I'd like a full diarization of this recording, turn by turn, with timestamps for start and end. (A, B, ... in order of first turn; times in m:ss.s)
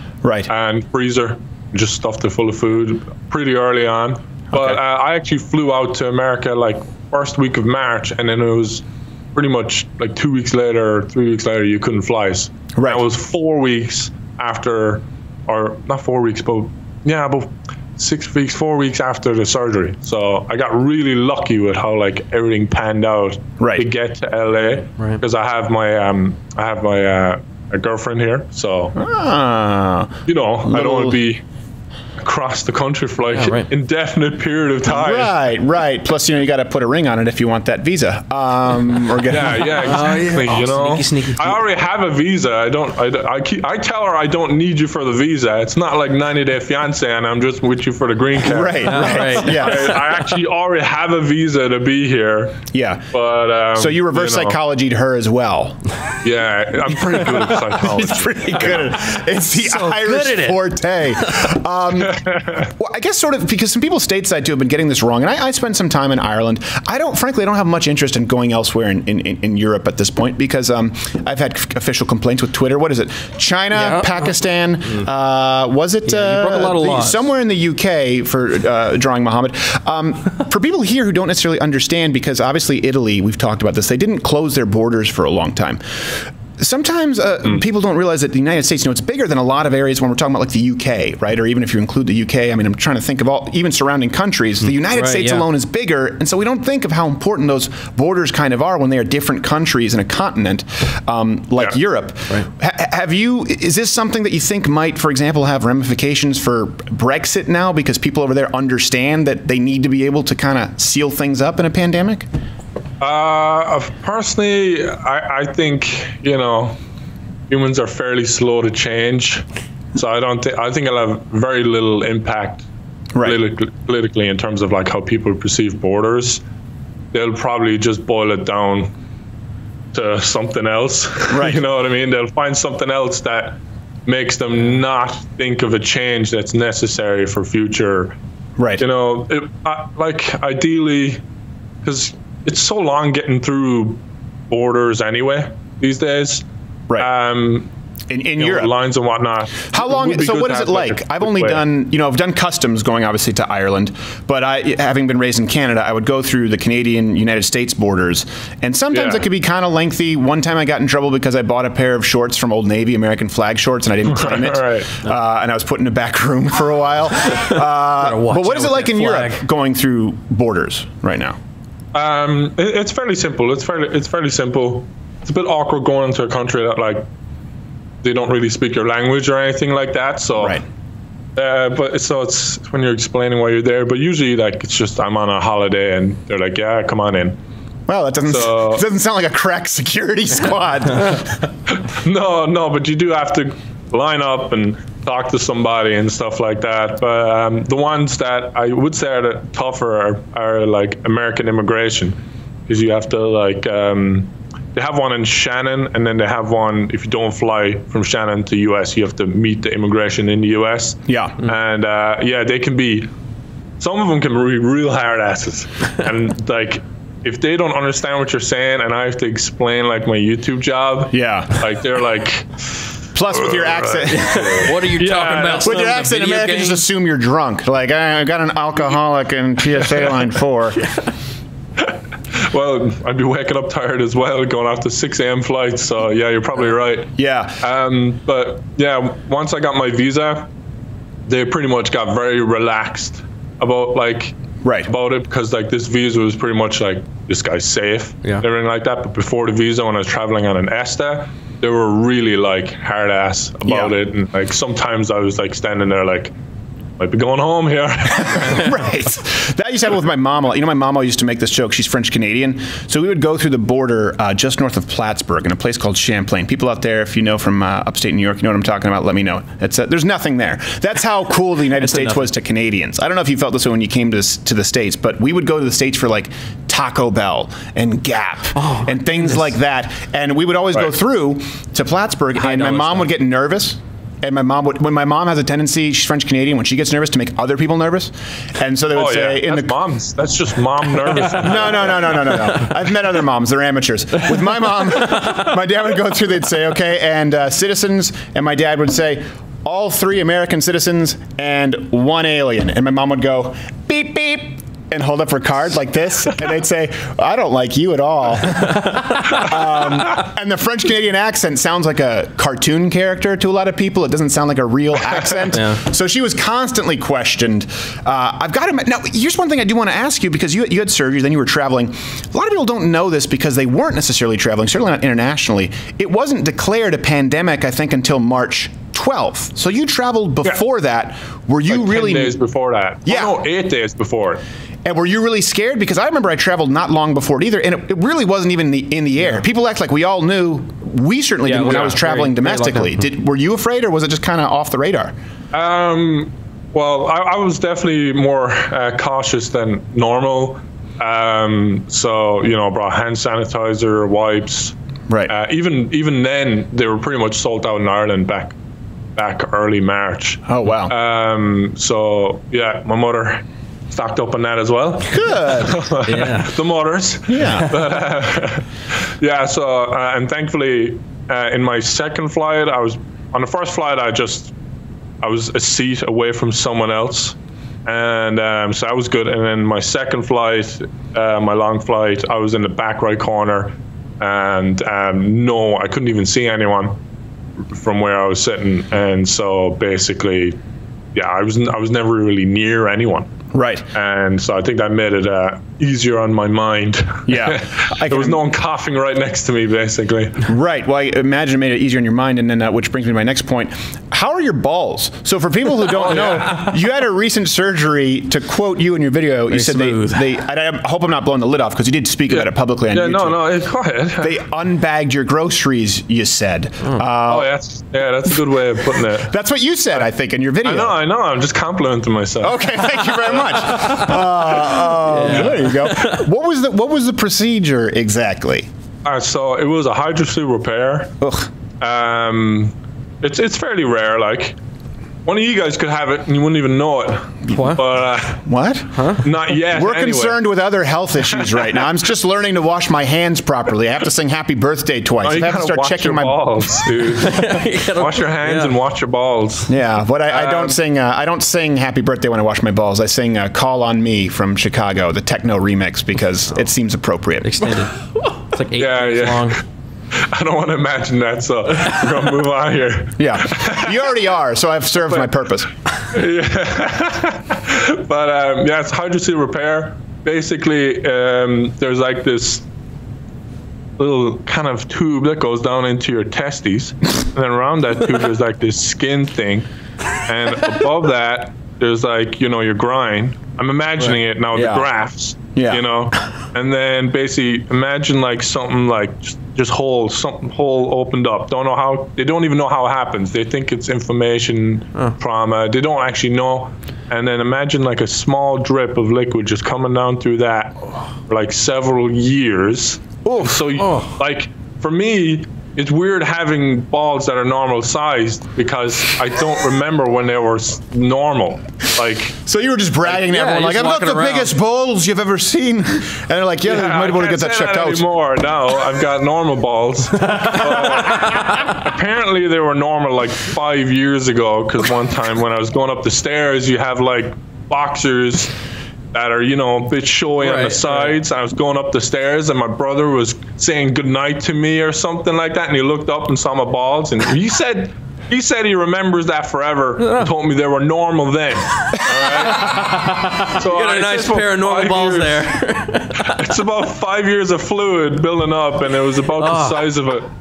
0:00.2-0:00.5 A
0:00.5-0:28.9 B
0:12.8-0:13.0 A
0:23.6-0:23.8 A
0:28.9-0:31.2 A
0:30.3-0:31.4 B
0:32.2-0:35.3 B
0:33.3-0:33.7 C
0:34.8-0:39.7 A
0:39.3-0:54.6 B
0:39.7-0:41.6 C
0:48.4-0:50.0 A
0:48.8-0:50.0 C
0:52.7-0:53.1 A
0:53.8-0:55.8 A
0:56.2-0:58.9 B
0:57.2-1:02.3 A
0:59.6-1:00.6 C
1:02.0-1:02.7 B
1:02.8-1:52.3 A
1:13.7-1:14.1 C
1:16.0-1:17.3 C
1:34.6-1:35.4 C
1:53.0-1:56.8 B
1:57.5-1:59.4 B
2:00.0-2:02.6 B
2:03.2-2:06.4 B
2:07.1-2:08.9 B
2:09.9-2:18.1 B
2:11.3-2:11.6 A
2:18.6-2:18.8 A
2:18.8-2:21.2 B
2:21.8-2:24.0 B
2:24.5-2:26.4 B
2:27.0-2:27.7 B
2:28.1-2:28.7 A
2:28.4-2:31.6 B
2:29.7-2:51.4 A
2:38.9-2:39.3 B
2:44.1-2:44.9 B
2:48.0-2:49.4 C
2:51.9-2:57.1 B
2:58.0-3:00.6 B
3:01.4-3:07.4 B
3:07.9-3:11.3 A
3:08.3-3:08.8 B
3:12.0-3:33.1 B
3:31.1-3:31.4 A
3:33.8-3:42.4 B
3:41.1-3:41.6 A
3:43.1-3:44.7 A
3:43.3-3:45.8 B
3:44.1-3:46.8 C
3:45.6-3:50.8 A
3:52.5-4:00.5 B
3:57.2-3:57.6 A
4:01.3-4:16.3 B
4:04.6-4:04.9 A
4:13.6-4:13.9 A
4:17.0-4:18.6 B
4:18.3-4:49.7 A
4:31.8-4:32.3 C
4:38.6-4:39.5 C
4:42.4-4:43.1 C
4:48.9-4:52.3 B
4:51.4-5:32.4 A
5:31.7-5:34.4 B
5:33.0-5:33.3 A
5:34.8-5:45.1 A
5:41.4-5:43.0 C
5:45.5-5:54.7 B
5:55.3-5:58.5 B
5:59.2-6:08.6 B
6:00.5-6:00.9 A
6:05.1-6:05.7 A
6:07.3-6:07.7 A
6:09.2-6:14.5 B
6:15.2-6:27.0 B
6:27.7-6:30.6 B
6:31.1-6:33.3 B
6:33.5-6:33.8 A
6:33.9-6:40.4 B
6:37.3-6:38.4 A
6:40.5-6:53.4 A
6:46.0-6:46.7 C
6:46.0-6:46.5 B
6:49.5-6:50.3 C
6:52.3-6:54.4 B
6:54.2-6:57.5 A
6:57.3-6:59.3 B
6:59.3-7:01.0 A
7:00.6-7:03.4 B
7:02.4-7:08.7 A
7:05.0-7:06.2 C
7:09.0-7:11.1 B
7:11.2-7:11.5 A
7:11.8-7:14.6 B
7:15.2-7:18.4 B
7:17.5-7:17.8 C
7:18.4-7:19.2 A
7:19.0-7:19.2 C
7:19.2-7:20.4 B
7:19.7-7:26.9 A
7:25.2-7:29.7 B
7:27.2-7:28.8 C
7:29.7-7:37.8 A
7:30.3-7:30.8 B
7:37.4-7:37.9 C
7:38.5-7:39.6 C
7:38.8-7:39.6 B
7:40.3-7:43.9 B
7:43.2-7:45.7 A
7:46.1-7:52.6 B
7:54.0-7:59.7 B
8:00.3-8:32.3 B
8:04.1-8:04.9 A
8:05.5-8:05.8 A
8:23.2-8:23.6 A
8:23.8-8:24.1 C
8:32.4-8:38.0 A
8:33.0-8:34.5 C
8:36.6-8:48.5 B
8:49.1-9:03.0 B
8:50.4-8:51.1 C
9:00.0-9:00.3 C
9:02.4-9:06.3 C
9:03.6-9:05.4 B
9:06.2-9:10.3 B
9:09.4-9:09.9 C